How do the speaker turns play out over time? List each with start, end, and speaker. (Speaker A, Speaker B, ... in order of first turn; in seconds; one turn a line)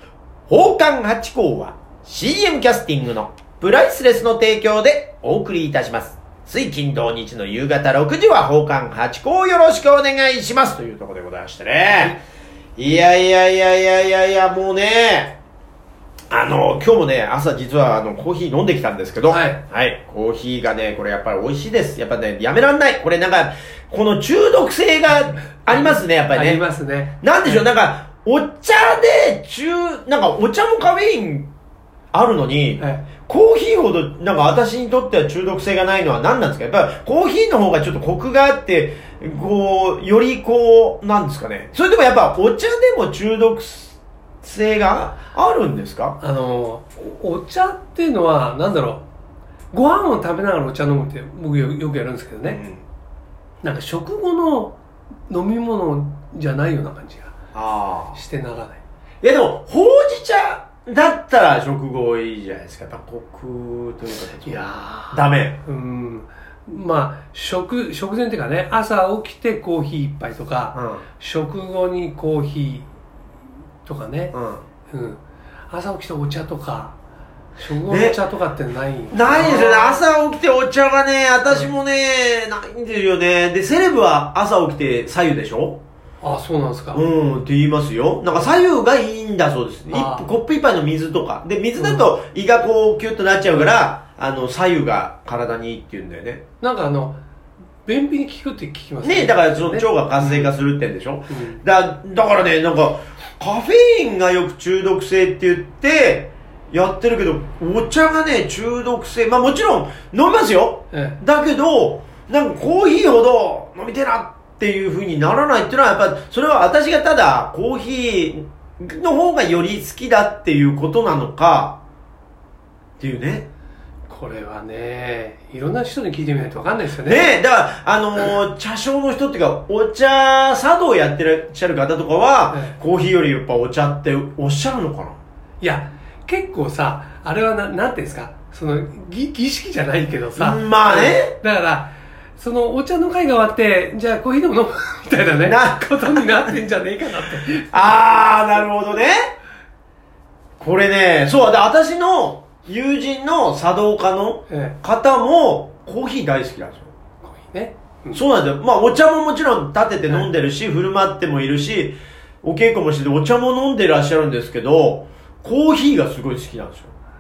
Speaker A: 0.5-12.2
Speaker A: 12.8-15.4
Speaker A: 16.3-26.6
Speaker B: 19.3-19.6
Speaker B: 25.7-27.6
Speaker A: 27.2-31.5
Speaker A: 32.1-46.2
Speaker B: 32.8-33.1
Speaker B: 46.2-49.0
Speaker B: 49.7-52.6
Speaker A: 52.5-52.8
Speaker B: 53.6-54.8
Speaker B: 55.3-57.3
Speaker A: 57.5-58.2
Speaker B: 58.1-58.8
Speaker A: 59.2-65.6
Speaker B: 64.4-72.9
Speaker A: 70.8-71.1
Speaker B: 73.9-74.3
Speaker A: 74.3-74.6
Speaker B: 74.9-77.0
Speaker B: 77.6-80.0
Speaker A: 77.9-78.2
Speaker A: 79.1-85.8
Speaker B: 86.2-87.0
Speaker A: 86.9-96.4
Speaker B: 89.9-90.3
Speaker B: 91.8-92.1
Speaker B: 96.6-97.2
Speaker B: 97.8-100.5
Speaker A: 99.0-121.8
Speaker B: 101.3-101.6
Speaker B: 110.9-111.2
Speaker A: 123.0-123.5
Speaker B: 124.1-127.3
Speaker A: 127.1-135.2
Speaker B: 132.5-132.8
Speaker B: 135.6-148.1
Speaker A: 140.4-141.4
Speaker A: 145.4-146.3
Speaker A: 147.7-149.3
Speaker A: 150.6-156.9
Speaker B: 154.5-154.8
Speaker B: 157.2-158.2
Speaker A: 158.1-166.9